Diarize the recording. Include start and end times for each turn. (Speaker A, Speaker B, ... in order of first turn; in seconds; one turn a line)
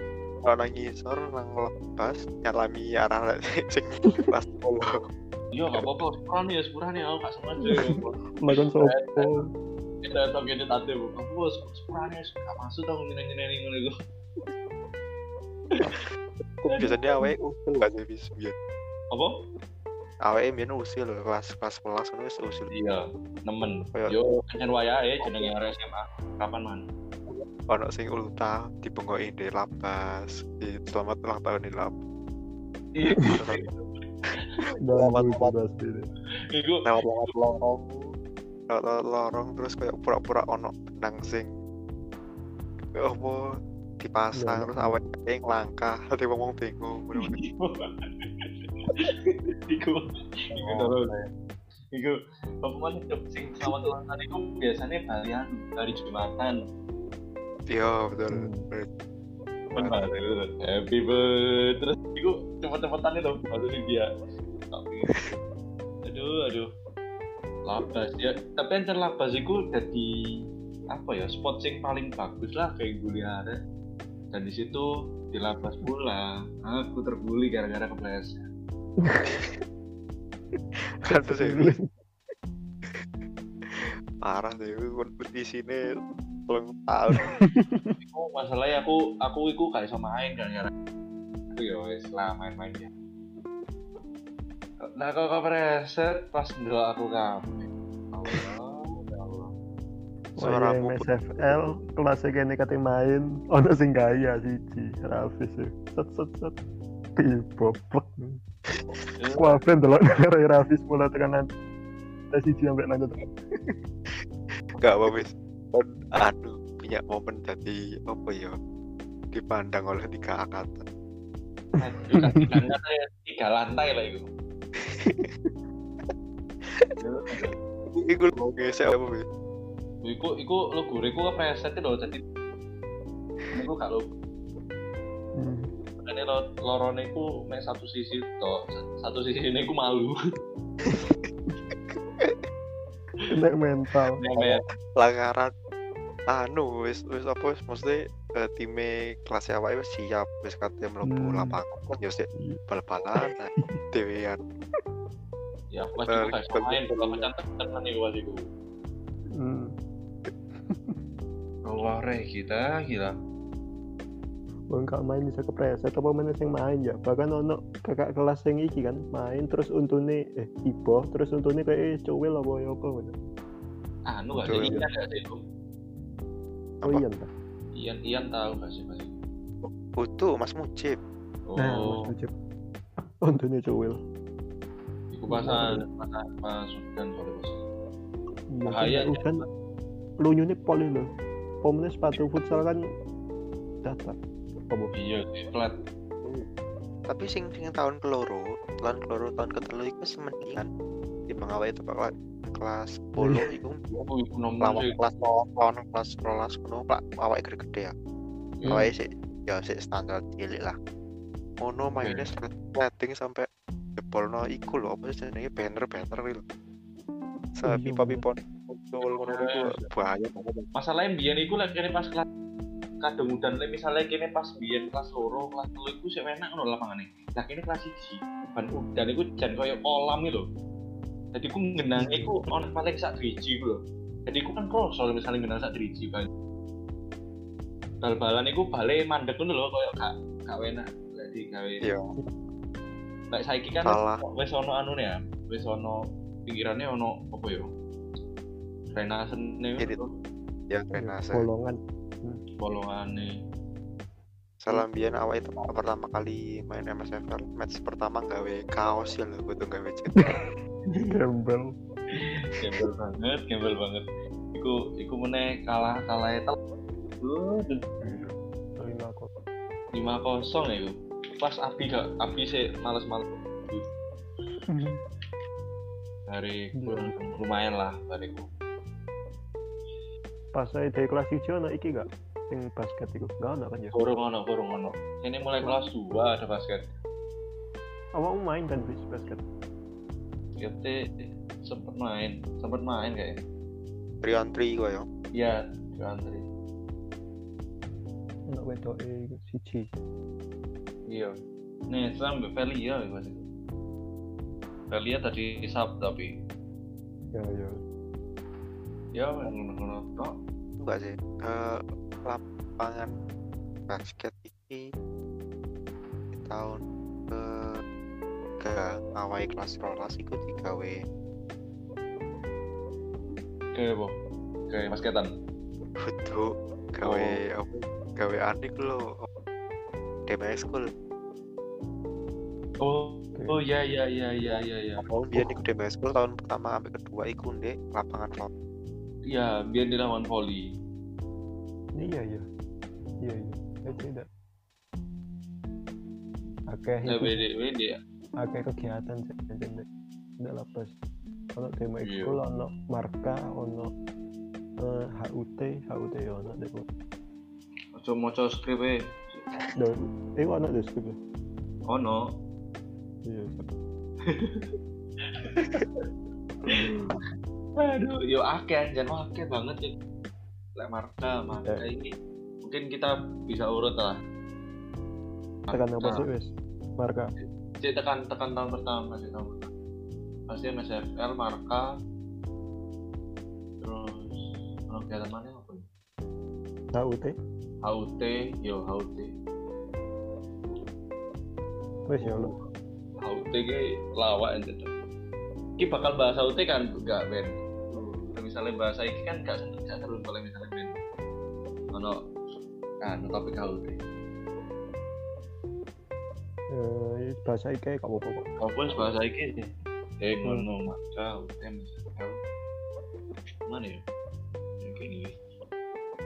Speaker A: 0.4-5.0
Speaker B: 4.1-4.3
Speaker C: 5.5-9.5
Speaker B: 7.7-9.5
Speaker C: 10.0-13.9
Speaker A: 16.6-18.6
Speaker C: 16.7-17.0
Speaker A: 20.2-22.7
Speaker C: 22.7-26.9
Speaker A: 25.2-25.5
Speaker A: 27.3-32.0
Speaker C: 33.0-33.8
Speaker A: 33.3-33.6
Speaker B: 34.8-36.1
Speaker A: 34.9-35.5
Speaker C: 36.5-36.9
Speaker A: 36.9-38.0
Speaker A: 38.7-41.5
Speaker A: 42.9-43.4
Speaker A: 44.0-47.4
Speaker B: 44.4-45.0
Speaker C: 47.2-51.2
Speaker A: 50.5-51.0
Speaker C: 51.9-56.6
Speaker A: 57.7-58.9
Speaker B: 58.3-58.7
Speaker A: 59.7-60.1
Speaker C: 59.8-64.1
Speaker C: 64.7-65.4
Speaker C: 66.1-66.7
Speaker C: 67.7-70.1
Speaker C: 70.9-73.6
Speaker C: 74.3-78.5
Speaker B: 79.0-79.5
Speaker A: 81.0-81.7
Speaker B: 81.1-81.8
Speaker A: 83.7-85.9
Speaker A: 86.5-87.3
Speaker B: 87.1-88.0
Speaker C: 88.0-90.7
Speaker C: 91.5-92.9
Speaker C: 94.8-99.5
Speaker A: 100.4-101.6
Speaker B: 100.4-106.6
Speaker B: 107.2-108.4
Speaker C: 108.9-109.6
Speaker B: 109.4-111.5
Speaker B: 112.3-113.8
Speaker A: 114.8-118.5
Speaker A: 119.3-120.8
Speaker C: 121.8-124.3
Speaker B: 122.2-122.5
Speaker A: 124.8-125.3
Speaker A: 126.7-126.9
Speaker C: 127.0-127.6
Speaker A: 127.9-129.2
Speaker C: 130.0-132.2
Speaker C: 133.6-134.1
Speaker B: 135.4-135.7
Speaker C: 136.0-140.2
Speaker B: 143.3-144.2
Speaker C: 144.2-144.6
Speaker A: 144.4-145.5
Speaker A: 146.3-154.4
Speaker B: 151.1-151.6
Speaker B: 152.3-152.6
Speaker B: 153.2-153.8
Speaker C: 155.7-158.5
Speaker A: 156.1-157.3
Speaker B: 159.3-159.7
Speaker B: 160.7-161.0
Speaker C: 161.7-163.2
Speaker B: 164.7-173.2
Speaker C: 174.1-175.4
Speaker A: 174.4-174.8
Speaker B: 174.6-174.9
Speaker B: 176.8-177.3
Speaker C: 177.7-179.2
Speaker A: 179.6-181.0
Speaker C: 181.5-182.1
Speaker B: 181.6-182.3
Speaker B: 183.0-184.0
Speaker C: 185.1-187.6
Speaker B: 185.3-185.8
Speaker B: 188.5-189.4
Speaker C: 188.7-189.4
Speaker B: 190.2-191.1
Speaker B: 191.6-192.8
Speaker B: 193.8-194.2
Speaker C: 194.9-195.8
Speaker A: 197.1-200.7
Speaker A: 201.3-204.1
Speaker B: 203.2-203.5
Speaker C: 204.1-205.0
Speaker A: 204.6-207.9
Speaker A: 208.7-210.8
Speaker B: 208.7-208.9
Speaker A: 211.6-216.4
Speaker C: 212.0-212.3
Speaker A: 217.6-220.7
Speaker B: 217.6-218.2
Speaker C: 219.0-219.9
Speaker C: 220.8-222.3
Speaker C: 223.0-230.5
Speaker C: 231.3-236.3
Speaker B: 231.9-232.4
Speaker C: 238.0-241.9
Speaker C: 243.3-247.7
Speaker A: 243.8-244.2
Speaker C: 248.9-250.1
Speaker A: 250.7-251.4
Speaker B: 251.0-252.4
Speaker C: 252.6-253.3
Speaker A: 254.6-260.4
Speaker B: 260.2-260.5
Speaker B: 261.1-261.8
Speaker C: 262.1-266.6
Speaker C: 267.2-267.9
Speaker B: 268.0-269.3
Speaker C: 269.9-273.9
Speaker B: 274.7-275.0
Speaker C: 276.3-278.5
Speaker B: 276.8-277.1
Speaker B: 280.5-283.9
Speaker C: 283.9-286.9
Speaker B: 288.1-289.4
Speaker C: 290.6-293.4
Speaker A: 294.2-295.1
Speaker C: 295.4-296.5
Speaker B: 298.5-299.9
Speaker C: 301.1-301.4
Speaker C: 301.9-303.5
Speaker C: 304.9-306.4
Speaker B: 307.3-307.8
Speaker C: 309.1-310.4
Speaker A: 310.8-313.1
Speaker A: 313.9-314.8
Speaker A: 316.3-317.8
Speaker A: 318.6-321.0
Speaker C: 323.7-324.2
Speaker C: 324.7-325.3
Speaker A: 326.0-329.3
Speaker C: 327.0-327.4
Speaker A: 330.3-330.9
Speaker C: 332.8-335.5
Speaker B: 333.4-333.6
Speaker A: 335.1-338.5
Speaker C: 339.3-340.7
Speaker B: 341.9-342.5
Speaker B: 343.2-344.3
Speaker B: 346.7-347.5
Speaker C: 347.1-348.0
Speaker B: 348.4-349.9
Speaker B: 350.4-350.9
Speaker B: 351.6-353.9
Speaker C: 352.0-352.4
Speaker B: 354.8-356.9
Speaker C: 357.9-359.5
Speaker B: 359.8-361.2
Speaker C: 361.9-362.3
Speaker B: 363.2-363.6
Speaker C: 364.3-364.8
Speaker C: 365.4-366.1
Speaker B: 366.7-367.2
Speaker C: 367.8-370.0
Speaker C: 370.8-374.2
Speaker C: 375.7-376.3
Speaker B: 375.7-377.3
Speaker C: 377.4-379.7
Speaker C: 380.5-381.9
Speaker C: 383.8-385.9
Speaker B: 386.9-387.4
Speaker C: 387.8-389.3
Speaker B: 392.1-392.5
Speaker C: 392.2-392.7
Speaker C: 393.2-394.9
Speaker C: 395.8-401.0
Speaker C: 401.9-402.2
Speaker C: 403.0-404.0
Speaker B: 406.7-409.1
Speaker C: 408.6-412.4
Speaker C: 413.7-414.1
Speaker C: 414.8-415.5